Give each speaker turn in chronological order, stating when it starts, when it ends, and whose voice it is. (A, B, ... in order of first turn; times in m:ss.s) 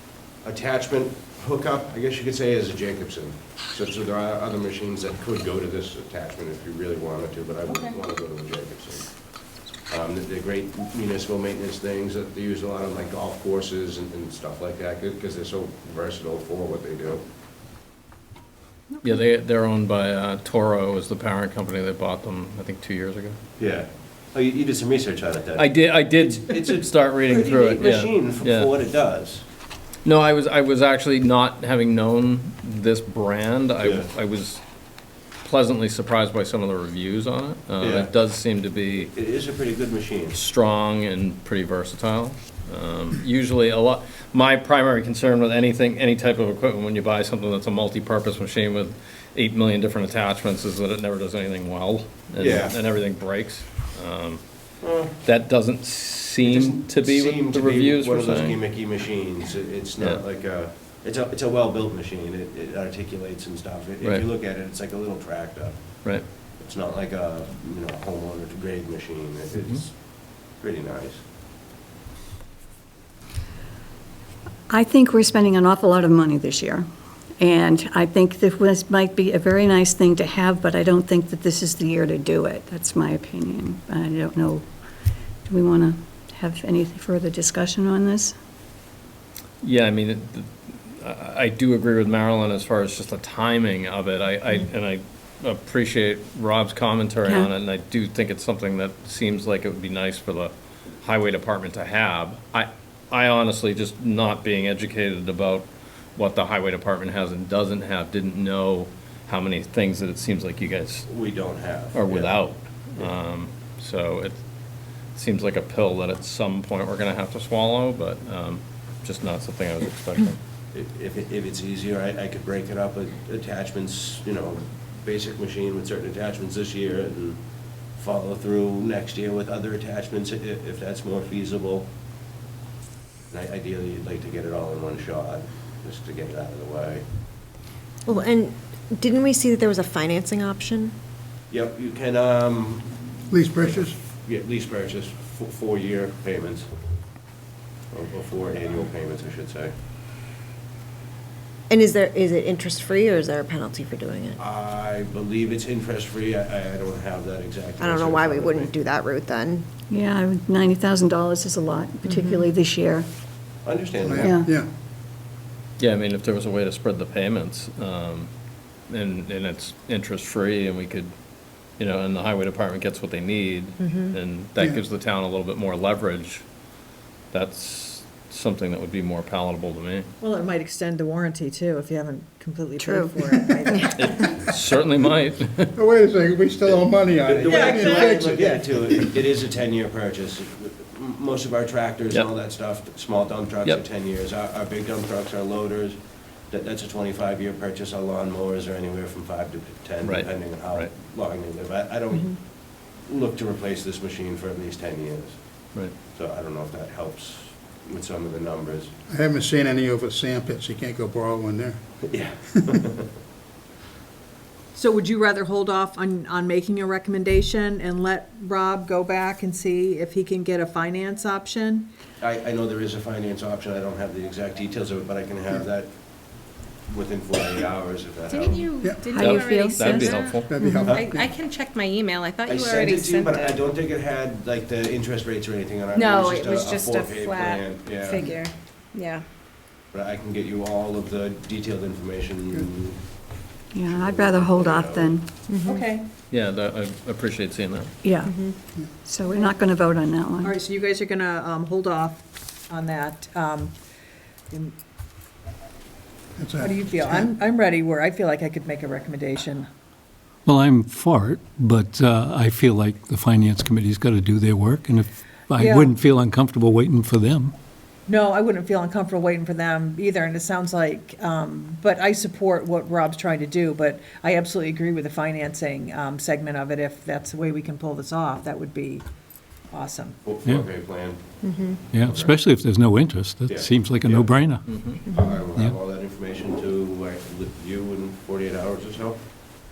0:00.4-0:17.2 A
0:07.6-0:08.0 B
0:19.0-0:23.4 C
0:23.6-0:29.4 A
0:25.6-0:28.7 C
0:30.0-0:34.6 C
0:33.8-0:34.1 A
0:35.4-0:39.1 C
0:37.8-0:38.1 A
0:39.1-0:40.4 A
0:40.3-0:54.7 C
0:52.4-0:52.8 A
0:54.8-0:55.1 A
0:55.2-0:58.6 C
0:56.4-1:11.2 A
1:04.0-1:04.3 C
1:14.7-1:16.8 D
1:17.4-1:24.6 D
1:25.4-1:28.3 D
1:29.6-1:51.1 C
1:37.2-1:37.5 D
1:51.0-1:53.1 A
1:51.9-1:54.4 C
1:55.1-2:00.4 C
2:00.7-2:07.4 A
2:08.0-2:11.9 A
2:13.3-2:17.0 A
2:18.0-2:20.9 E
2:21.5-2:26.7 A
2:23.3-2:24.0 F
2:27.9-2:29.7 A
2:31.7-2:34.4 E
2:34.4-2:38.7 A
2:37.8-2:39.7 E
2:39.9-2:43.1 D
2:42.0-2:42.5 E
2:43.6-2:44.4 A
2:44.0-2:44.7 F
2:44.2-2:44.5 D
2:45.8-2:51.1 C
2:51.7-2:56.5 C
2:53.8-2:54.2 E
2:57.3-3:00.1 C
3:00.2-3:04.2 B
3:02.8-3:03.9 E
3:03.9-3:05.7 C
3:05.7-3:09.1 F
3:06.6-3:28.9 A
3:07.5-3:08.4 B
3:20.0-3:20.9 C
3:29.1-3:32.1 F
3:32.1-3:33.1 A
3:34.8-3:41.9 B
3:42.2-3:48.7 A
3:48.3-3:53.8 G
3:48.8-3:49.2 F
3:49.1-3:50.6 C
3:49.3-3:50.1 D
3:50.5-3:51.3 F
3:50.6-3:51.0 E
3:50.8-3:51.1 A
3:52.4-3:58.4 A
3:55.9-3:59.2 G
3:59.9-4:05.1 A
4:03.7-4:05.3 D
4:05.4-4:05.8 E
4:05.6-4:06.0 B
4:06.3-4:07.9 C
4:08.0-4:10.6 D
4:08.2-4:08.6 E
4:09.2-4:09.5 B
4:10.4-4:12.2 B
4:12.7-4:13.7 B
4:16.4-4:17.3 F
4:16.6-4:19.6 B
4:20.4-4:27.5 H
4:25.6-4:25.9 B
4:28.1-4:39.0 B
4:39.7-4:40.1 B
4:40.2-4:41.4 A
4:40.4-4:40.7 H
4:41.4-4:41.8 E
4:41.9-4:45.8 H
4:41.9-4:42.3 A
4:43.5-4:44.3 A
4:44.6-4:45.0 C
4:45.0-4:45.5 E
4:45.1-4:49.2 A